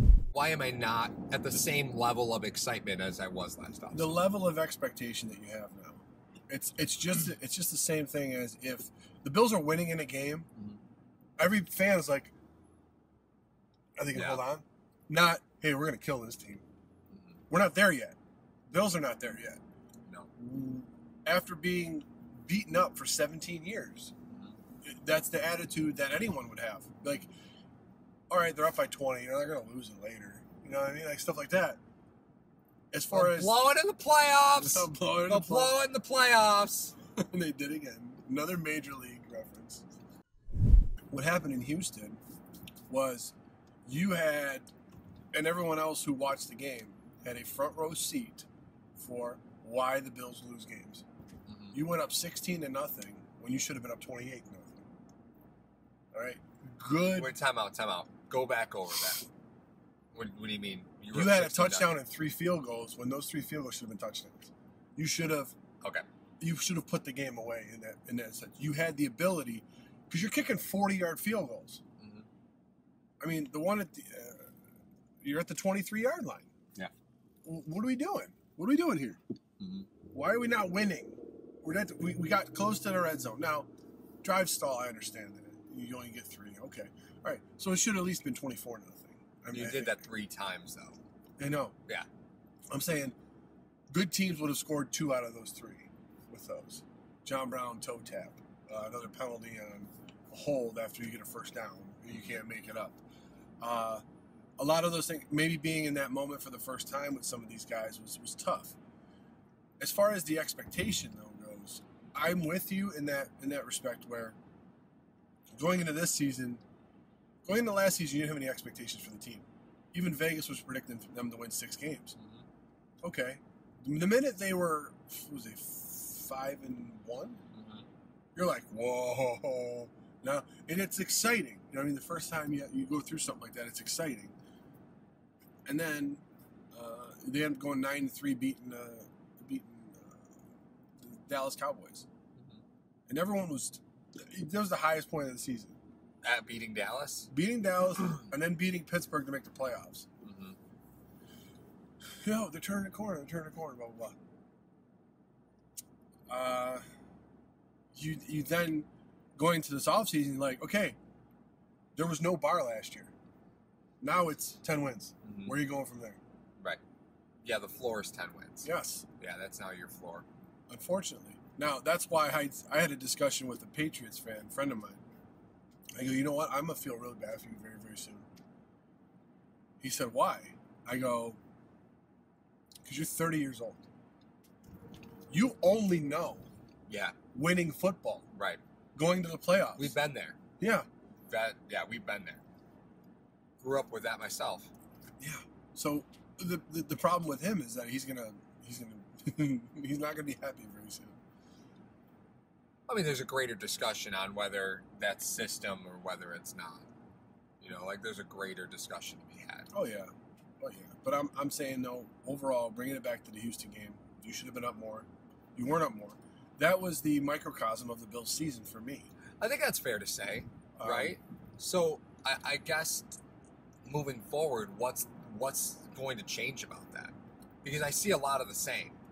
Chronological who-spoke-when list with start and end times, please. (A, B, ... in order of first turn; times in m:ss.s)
0:00.3-0:04.1 A
0:03.9-0:10.5 B
0:11.4-0:12.3 B
0:14.0-0:16.6 B
0:14.1-0:14.4 A
0:17.1-0:17.4 A
0:17.5-0:18.2 B
0:18.7-0:19.6 B
0:20.0-0:20.3 A
0:20.4-0:24.1 B
0:24.3-0:24.6 A
0:24.8-0:27.3 B
0:28.3-0:31.8 B
0:32.9-0:33.6 B
0:33.1-0:37.0 A
0:34.6-0:35.8 B
0:37.2-0:39.8 B
0:41.1-0:42.2 B
0:42.9-0:43.3 B
0:43.8-0:44.7 B
0:45.3-0:51.0 B
0:51.5-0:51.8 A
0:51.7-0:54.8 B
0:56.1-0:57.3 B
0:57.2-0:59.3 A
1:00.1-1:01.9 A
1:01.1-1:05.5 B
1:06.4-1:11.8 B
1:12.0-1:12.3 A
1:13.2-1:14.5 B
1:15.2-1:16.5 B
1:17.4-1:19.2 B
1:19.6-1:19.9 A
1:20.1-1:23.7 B
1:24.2-1:30.0 B
1:29.5-1:31.0 A
1:31.4-1:31.8 B
1:32.7-1:33.1 B
1:33.9-1:43.0 B
1:43.6-1:44.0 B
1:44.6-1:48.8 B
1:49.8-1:54.4 B
1:55.5-1:56.6 B
1:57.4-2:02.2 B
2:02.2-2:02.4 A
2:03.0-2:07.4 B
2:07.5-2:07.9 A
2:08.4-2:14.3 B
2:15.6-2:16.2 B
2:16.7-2:20.3 B
2:21.0-2:22.1 B
2:23.1-2:25.8 B
2:26.2-2:27.3 A
2:27.3-2:30.1 B
2:30.2-2:30.6 A
2:32.1-2:34.2 B
2:36.3-2:36.8 B
2:37.9-2:41.0 B
2:42.0-2:43.1 B
2:44.0-2:46.2 B
2:45.2-2:45.6 A
2:47.4-2:50.2 A
2:48.6-2:49.1 B
2:50.7-2:55.0 B
2:56.0-2:58.2 B
2:59.8-3:01.4 B
3:02.8-3:03.8 B
3:05.3-3:06.5 B
3:06.9-3:07.2 A
3:07.3-3:08.2 B
3:08.3-3:08.6 A
3:08.9-3:10.0 B
3:09.8-3:10.4 A
3:10.6-3:10.9 B
3:11.3-3:12.4 A
3:13.6-3:14.7 A
3:15.2-3:21.2 B
3:22.9-3:26.9 A
3:27.6-3:29.7 A
3:29.7-3:39.1 B
3:39.4-3:43.2 A
3:40.8-3:41.2 B
3:43.8-3:49.0 A